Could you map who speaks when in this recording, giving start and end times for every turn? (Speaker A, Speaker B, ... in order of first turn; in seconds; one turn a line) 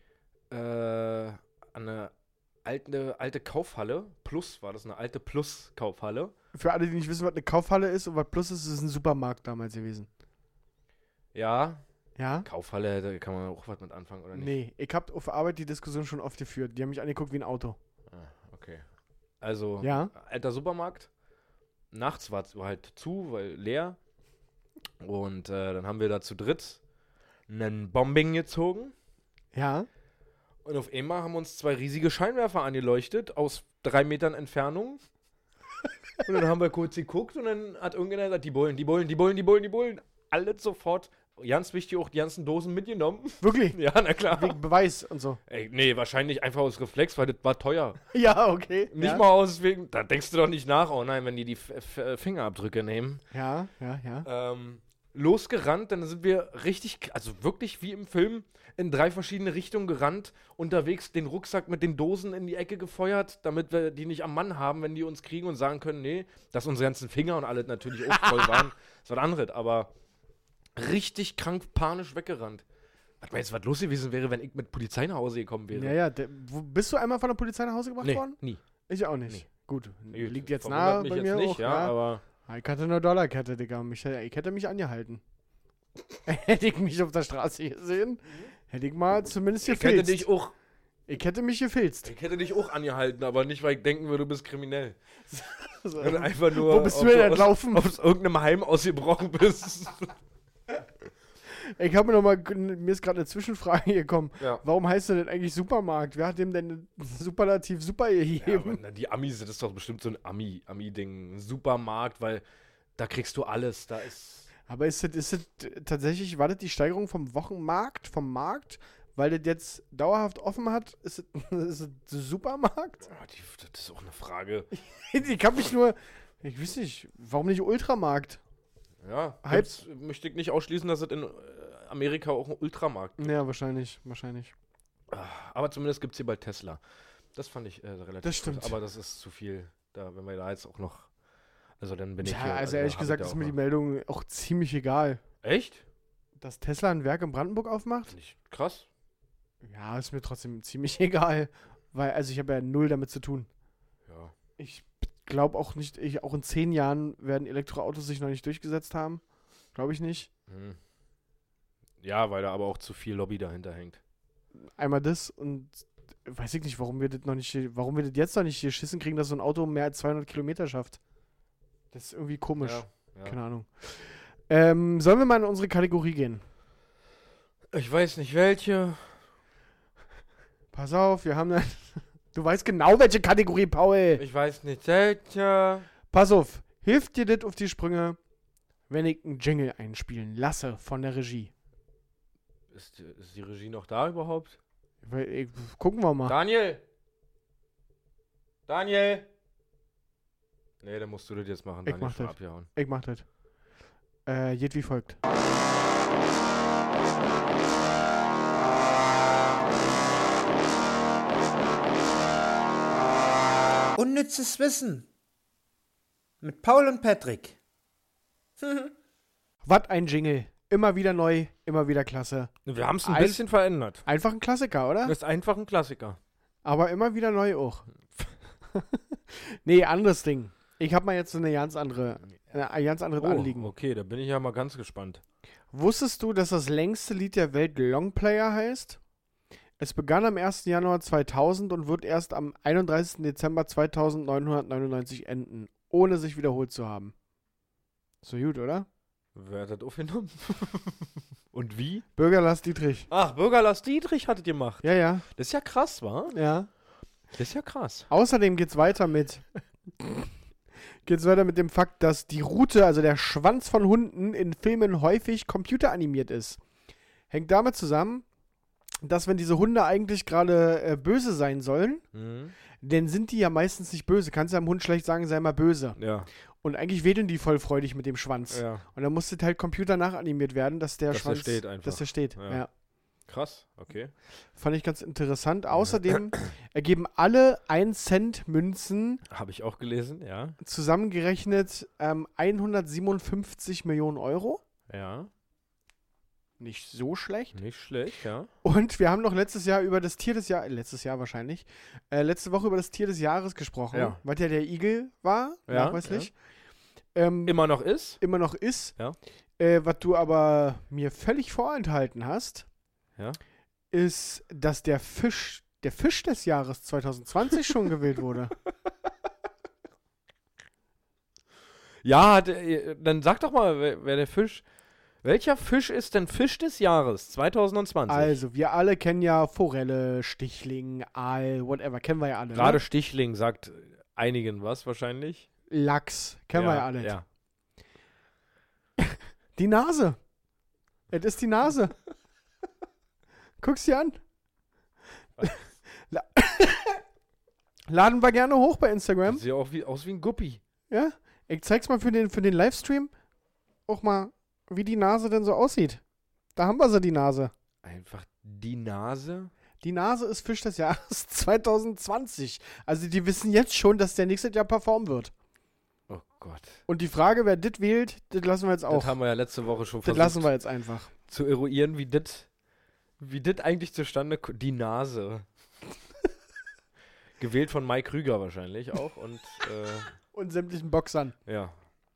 Speaker A: 0.5-2.1
Speaker A: 2.6-6.3
Speaker B: 6.5-10.1
Speaker A: 11.3-11.8
Speaker B: 12.2-12.5
Speaker A: 12.4-14.6
Speaker B: 14.3-17.8
Speaker A: 18.1-18.8
Speaker A: 19.4-21.1
Speaker B: 19.8-20.1
Speaker A: 21.9-24.0
Speaker A: 25.0-26.8
Speaker A: 27.5-28.9
Speaker B: 29.5-29.9
Speaker A: 30.6-35.0
Speaker A: 36.2-44.6
Speaker B: 43.4-43.8
Speaker B: 44.3-45.4
Speaker A: 45.5-48.0
Speaker B: 48.1-49.2
Speaker A: 48.9-53.2
Speaker B: 53.3-54.3
Speaker A: 54.2-69.9
Speaker A: 70.8-72.6
Speaker A: 73.2-76.0
Speaker B: 75.7-85.2
Speaker A: 78.0-78.6
Speaker A: 80.1-82.2
Speaker B: 86.2-90.2
Speaker A: 89.6-90.5
Speaker B: 91.1-92.1
Speaker A: 92.0-95.0
Speaker B: 95.3-97.9
Speaker A: 96.0-100.1
Speaker B: 101.6-108.8
Speaker A: 108.4-112.4
Speaker A: 113.0-114.5
Speaker B: 114.7-123.1
Speaker A: 123.0-124.7
Speaker B: 124.7-128.4
Speaker A: 129.0-133.3
Speaker B: 133.2-134.5
Speaker A: 135.1-136.8
Speaker A: 137.3-141.1
Speaker B: 138.2-138.8
Speaker A: 141.8-143.5
Speaker B: 142.2-145.2
Speaker A: 145.4-145.8
Speaker B: 146.4-148.1
Speaker A: 148.1-148.9
Speaker B: 149.6-153.5
Speaker A: 154.1-154.3
Speaker B: 154.6-159.2
Speaker B: 159.7-160.3
Speaker A: 160.5-160.8
Speaker A: 162.0-164.0
Speaker B: 164.8-171.0
Speaker B: 171.9-176.4
Speaker A: 172.6-173.3
Speaker A: 177.7-179.2
Speaker B: 180.7-184.2
Speaker A: 184.2-185.9
Speaker B: 186.1-188.2
Speaker B: 188.9-191.5
Speaker A: 192.7-194.6
Speaker B: 195.0-196.3
Speaker A: 196.2-196.8
Speaker A: 198.7-199.3
Speaker A: 200.8-202.7
Speaker B: 201.8-203.2
Speaker B: 204.2-205.2
Speaker C: 214.0-215.1
Speaker C: 216.4-217.6
Speaker C: 218.6-218.9
Speaker B: 219.6-223.4
Speaker A: 222.7-224.0
Speaker B: 224.0-225.1
Speaker A: 225.0-226.2
Speaker B: 226.6-227.9
Speaker B: 228.7-233.7
Speaker A: 233.2-235.2
Speaker B: 235.7-239.0
Speaker B: 239.8-247.1
Speaker B: 248.2-248.9
Speaker A: 249.3-252.0
Speaker B: 252.2-253.1
Speaker A: 253.1-256.3
Speaker B: 254.8-255.2
Speaker B: 256.3-256.7
Speaker A: 257.4-258.1
Speaker B: 258.1-259.4
Speaker B: 260.0-260.3
Speaker B: 261.1-266.6
Speaker B: 267.3-268.2
Speaker B: 269.0-272.0
Speaker A: 272.1-272.5
Speaker B: 272.8-276.0
Speaker A: 275.9-276.3
Speaker B: 276.6-282.7
Speaker A: 278.5-278.8
Speaker A: 281.1-282.6
Speaker A: 283.2-284.1
Speaker B: 284.5-289.2
Speaker A: 285.7-286.4
Speaker A: 289.3-290.6
Speaker B: 290.6-294.6
Speaker A: 294.9-295.3
Speaker B: 296.6-297.6
Speaker A: 297.5-298.5
Speaker B: 298.6-306.3
Speaker A: 303.9-304.2
Speaker A: 305.7-306.3
Speaker B: 307.1-307.6
Speaker A: 307.4-308.2
Speaker B: 308.2-309.0
Speaker B: 309.6-312.6
Speaker B: 313.9-318.5
Speaker A: 322.0-324.6
Speaker A: 325.2-328.4
Speaker B: 328.1-332.8
Speaker A: 332.5-335.5
Speaker B: 335.7-337.1
Speaker A: 336.5-337.2
Speaker B: 339.6-340.2
Speaker B: 341.1-341.9
Speaker B: 343.6-344.2
Speaker B: 345.4-347.0
Speaker B: 347.9-349.4
Speaker A: 349.2-350.6
Speaker B: 350.9-353.1
Speaker B: 353.9-356.0
Speaker B: 356.5-357.5
Speaker A: 357.8-359.5
Speaker B: 359.8-365.3
Speaker A: 366.1-366.8
Speaker B: 366.9-369.1
Speaker A: 368.9-370.5
Speaker B: 370.0-371.1
Speaker A: 371.3-372.5
Speaker A: 373.2-375.4
Speaker A: 377.4-380.1
Speaker B: 380.3-381.4
Speaker A: 381.4-381.8